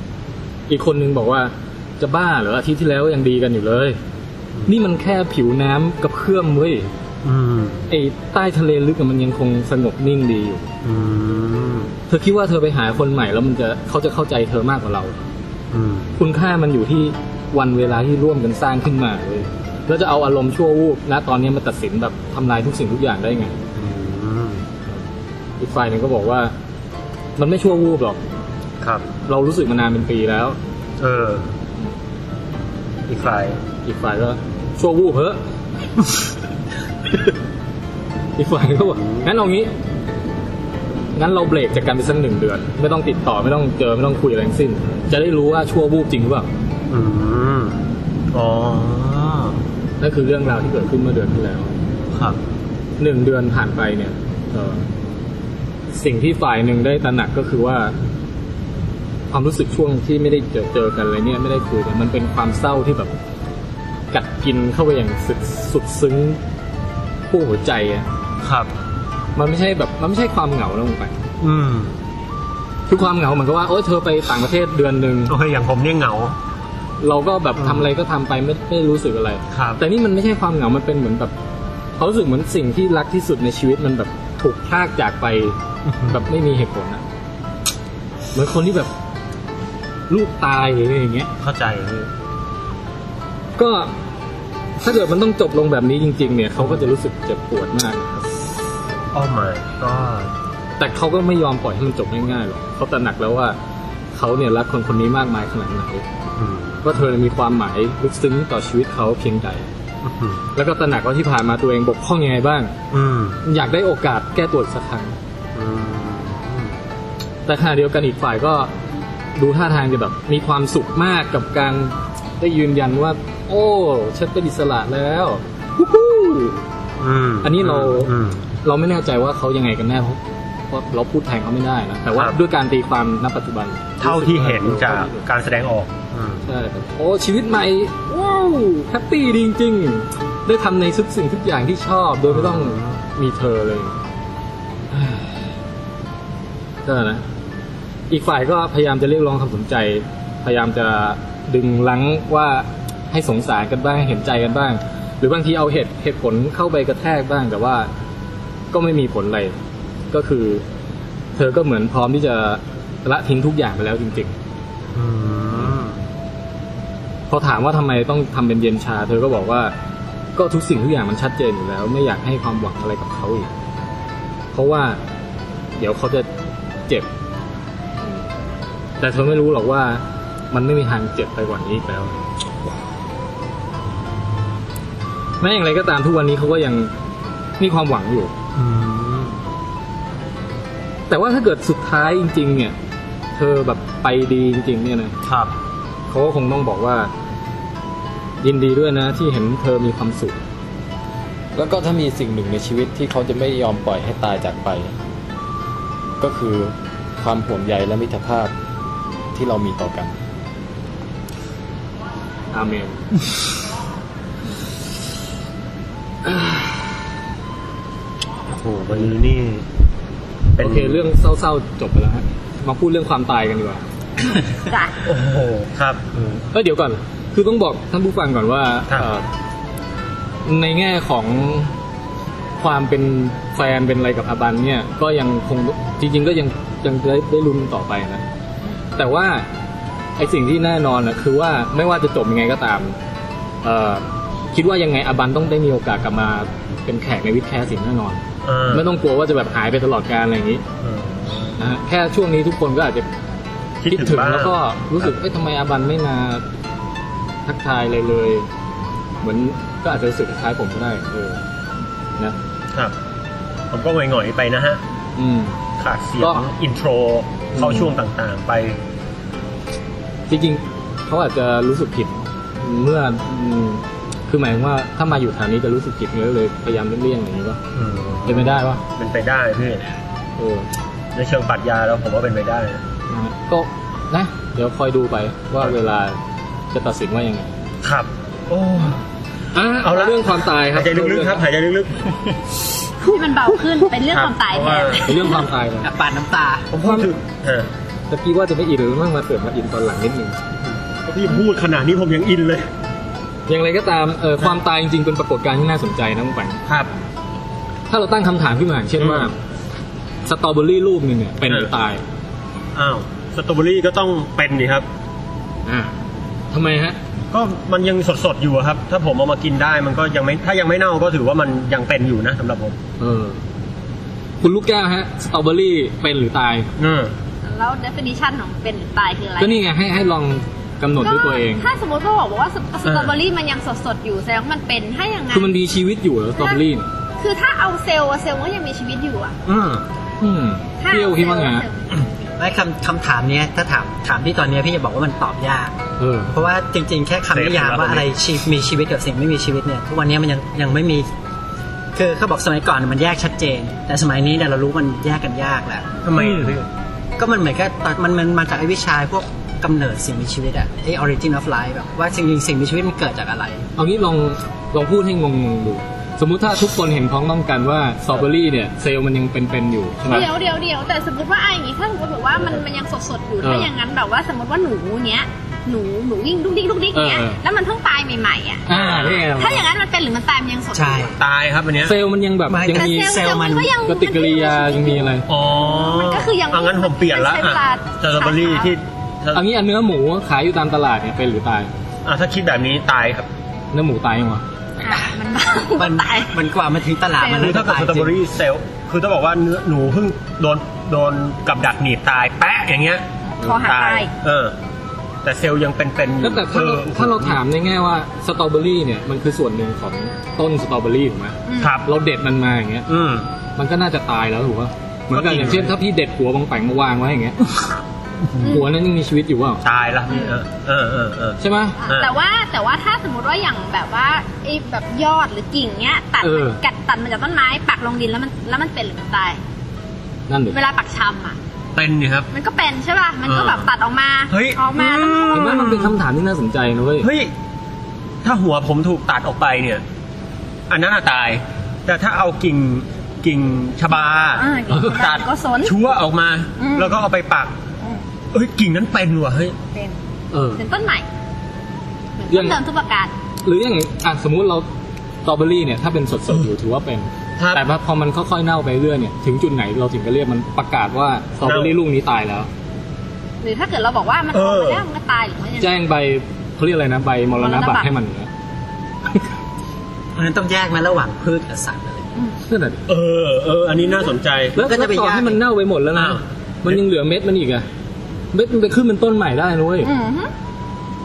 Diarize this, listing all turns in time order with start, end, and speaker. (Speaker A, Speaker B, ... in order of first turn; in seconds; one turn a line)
Speaker A: 0.7-4.0
Speaker A: 4.7-6.9
Speaker B: 7.2-7.8
Speaker A: 7.9-10.7
Speaker B: 10.8-11.9
Speaker A: 12.1-15.2
Speaker B: 15.7-16.2
Speaker A: 16.2-23.6
Speaker B: 23.7-24.6
Speaker A: 25.6-26.5
Speaker A: 27.4-28.2
Speaker B: 28.8-29.1
Speaker A: 29.2-30.6
Speaker B: 31.0-31.5
Speaker B: 33.1-33.6
Speaker A: 33.8-35.4
Speaker A: 38.4-39.7
Speaker B: 39.0-39.3
Speaker A: 41.1-46.5
Speaker B: 46.9-49.6
Speaker A: 50.0-51.7
Speaker A: 53.0-54.9
Speaker A: 55.9-57.9
Speaker A: 59.3-63.1
Speaker A: 64.1-66.4
Speaker A: 67.3-68.0
Speaker B: 68.4-68.7
Speaker A: 69.3-71.2
Speaker B: 71.4-72.0
Speaker A: 72.9-75.3
Speaker B: 75.3-76.3
Speaker A: 77.0-81.3
Speaker B: 77.6-77.8
Speaker B: 79.5-79.8
Speaker A: 82.0-87.0
Speaker B: 85.9-86.2
Speaker A: 88.3-88.9
Speaker A: 90.1-91.3
Speaker B: 91.4-92.1
Speaker A: 93.6-93.9
Speaker A: 94.8-98.3
Speaker B: 99.1-100.3
Speaker A: 100.8-103.6
Speaker A: 104.1-106.0
Speaker B: 106.4-107.0
Speaker A: 106.8-109.7
Speaker B: 110.0-110.4
Speaker A: 110.5-112.7
Speaker B: 112.9-113.4
Speaker A: 113.4-115.2
Speaker B: 115.5-116.7
Speaker A: 117.5-118.7
Speaker A: 119.3-126.6
Speaker B: 127.0-128.4
Speaker A: 127.4-128.1
Speaker A: 128.6-135.3
Speaker B: 134.0-136.4
Speaker A: 136.4-144.0
Speaker B: 142.3-143.0
Speaker A: 144.9-145.5
Speaker A: 146.8-147.2
Speaker A: 148.1-157.9
Speaker A: 158.7-159.5
Speaker A: 160.1-160.6
Speaker A: 161.3-164.3
Speaker B: 164.9-166.0
Speaker A: 167.3-169.7
Speaker A: 170.3-173.5
Speaker A: 174.5-175.0
Speaker A: 175.8-176.3
Speaker A: 178.0-178.3
Speaker A: 179.0-182.2
Speaker A: 185.4-186.9
Speaker A: 187.6-188.3
Speaker B: 188.6-189.4
Speaker A: 191.1-192.7
Speaker A: 193.3-195.1
Speaker B: 195.2-195.5
Speaker A: 196.1-197.1
Speaker A: 198.4-200.4
Speaker C: 201.5-204.9
Speaker C: 206.2-208.5
Speaker C: 209.3-210.1
Speaker A: 212.5-213.1
Speaker A: 216.2-216.8
Speaker B: 218.5-219.7
Speaker B: 220.6-221.1
Speaker A: 220.6-223.8
Speaker D: 224.7-224.9
Speaker B: 225.0-226.1
Speaker A: 226.2-229.2
Speaker A: 230.4-231.7
Speaker A: 232.6-238.2
Speaker A: 238.9-239.5
Speaker A: 240.2-243.0
Speaker A: 243.6-250.6
Speaker B: 248.4-248.8
Speaker B: 250.8-251.6
Speaker A: 251.6-253.1
Speaker B: 253.8-255.1
Speaker A: 253.9-256.4
Speaker A: 257.4-258.5
Speaker A: 259.2-261.4
Speaker B: 263.7-264.8
Speaker A: 265.1-265.6
Speaker B: 265.8-268.8
Speaker A: 266.2-266.5
Speaker A: 267.5-267.9
Speaker A: 270.3-277.6
Speaker B: 277.7-279.9
Speaker A: 278.2-278.8
Speaker A: 280.4-280.7
Speaker B: 281.1-282.8
Speaker A: 283.1-286.2
Speaker A: 286.7-287.5
Speaker B: 287.8-289.0
Speaker A: 289.5-291.4
Speaker B: 289.8-292.1
Speaker D: 293.0-295.4
Speaker B: 294.1-295.1
Speaker A: 295.0-295.9
Speaker E: 295.8-296.7
Speaker B: 296.7-297.7
Speaker A: 296.8-297.1
Speaker A: 298.1-300.4
Speaker B: 300.6-302.7
Speaker A: 303.5-306.6
Speaker A: 307.9-309.4
Speaker B: 309.0-309.3
Speaker A: 310.2-312.0
Speaker B: 312.7-314.9
Speaker A: 315.6-315.9
Speaker A: 316.5-317.0
Speaker B: 317.3-322.8
Speaker A: 323.0-323.4
Speaker A: 324.4-326.7
Speaker B: 326.8-327.1
Speaker D: 327.4-329.6
Speaker A: 329.4-331.7
Speaker D: 331.0-335.5
Speaker B: 332.8-333.1
Speaker A: 335.3-336.9
Speaker D: 337.2-339.3
Speaker B: 339.4-339.8
Speaker A: 340.2-341.6
Speaker D: 340.8-341.8
Speaker E: 342.4-345.7
Speaker A: 346.0-346.3
Speaker E: 346.3-351.1
Speaker B: 347.3-348.2
Speaker E: 351.9-356.0
Speaker B: 356.0-356.6
Speaker A: 356.1-356.6
Speaker E: 357.2-363.6
Speaker A: 363.8-370.3
Speaker D: 370.1-381.1
Speaker A: 373.4-373.7
Speaker A: 376.9-377.4
Speaker A: 378.6-379.6
Speaker B: 378.7-379.2
Speaker E: 380.7-381.1
Speaker B: 381.2-381.9
Speaker A: 381.8-383.3
Speaker E: 382.5-383.7
Speaker D: 382.7-388.7
Speaker A: 383.8-385.3
Speaker B: 385.3-389.4
Speaker A: 389.3-391.7
Speaker B: 392.1-393.3
Speaker A: 393.7-394.4
Speaker D: 394.8-396.3
Speaker E: 395.8-398.1
Speaker D: 397.2-397.6
Speaker B: 397.4-404.5
Speaker D: 403.4-404.1
Speaker B: 405.2-407.4
Speaker A: 406.2-412.9
Speaker D: 411.5-411.7
Speaker B: 411.6-411.9
Speaker B: 412.9-413.3
Speaker A: 413.6-417.7
Speaker B: 415.1-415.7
Speaker A: 418.4-419.6
Speaker D: 418.4-418.7
Speaker B: 419.6-421.4
Speaker D: 420.1-420.4
Speaker A: 421.4-421.8
Speaker D: 421.8-429.4
Speaker A: 426.2-426.6
Speaker A: 430.3-430.6
Speaker D: 430.5-431.4
Speaker B: 431.8-432.3
Speaker D: 432.3-435.6
Speaker B: 433.3-433.7
Speaker B: 434.3-435.9
Speaker A: 435.3-437.1
Speaker B: 437.0-437.3
Speaker B: 438.2-439.8
Speaker B: 440.7-447.5
Speaker D: 444.4-445.7
Speaker D: 446.6-447.0
Speaker B: 448.3-449.6
Speaker A: 450.3-450.6
Speaker D: 450.6-451.0
Speaker D: 452.2-453.1
Speaker A: 452.3-452.6
Speaker A: 453.4-454.7
Speaker A: 455.2-462.5
Speaker B: 461.4-461.8
Speaker D: 463.4-465.7
Speaker B: 464.3-464.8
Speaker A: 465.6-468.3
Speaker D: 467.4-467.9
Speaker E: 470.1-472.1
Speaker A: 472.4-472.9
Speaker B: 472.9-474.6
Speaker D: 473.8-474.1
Speaker E: 474.5-475.4
Speaker A: 474.5-477.6
Speaker B: 475.9-476.8
Speaker A: 478.3-479.9
Speaker D: 479.8-480.3